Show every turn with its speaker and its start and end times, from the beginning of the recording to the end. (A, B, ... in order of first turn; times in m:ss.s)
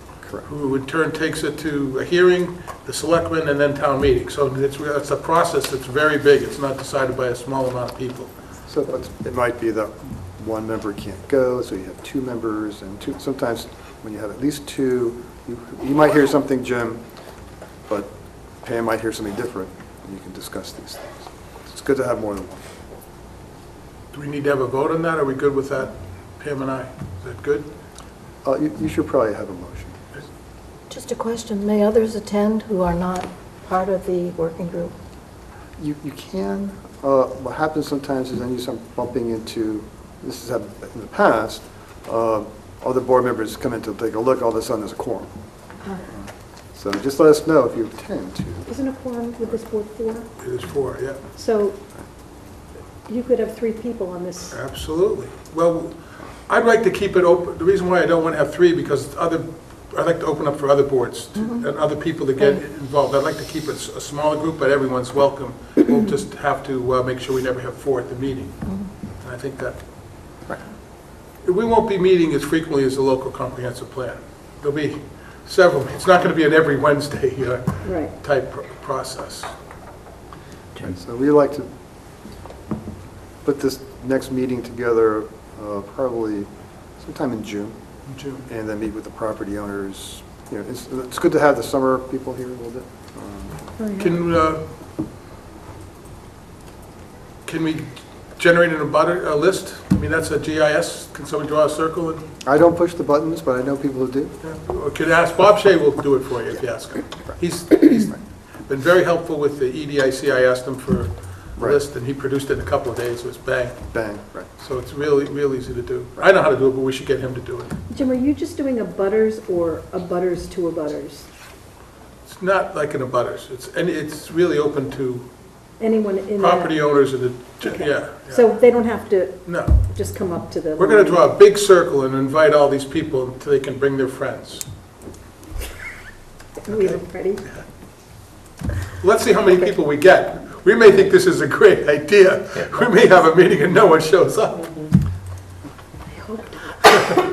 0:00.2-0:00.5 A
0:00.4-0:08.3 B
0:08.7-0:17.0 A
0:18.6-0:22.6 A
0:24.1-0:27.7 B
0:28.4-0:30.0 A
0:30.9-0:34.9 C
0:35.8-0:45.3 A
0:46.0-0:48.7 A
0:48.7-0:50.3 D
0:50.4-0:51.2 B
0:51.4-0:51.8 D
0:53.1-0:54.6 D
0:54.5-1:09.8 B
1:11.4-1:19.5 B
1:17.8-1:18.1 D
1:20.8-1:21.7 A
1:23.4-1:27.7 A
1:28.1-1:28.5 B
1:28.5-1:33.6 A
1:33.8-1:34.2 D
1:34.0-1:34.6 B
1:37.5-1:42.2 B
1:42.4-1:44.4 A
1:44.4-1:53.8 B
1:47.2-1:48.2 A
1:53.9-1:54.5 A
1:54.6-1:57.8 B
1:57.9-2:01.3 D
2:02.3-2:05.3 B
2:05.8-2:11.3 D
2:06.4-2:08.5 B
2:09.4-2:09.8 B
2:10.8-2:14.7 B
2:16.7-2:17.4 D
2:16.7-2:17.6 B
2:19.0-2:24.7 B
2:26.1-2:26.9 D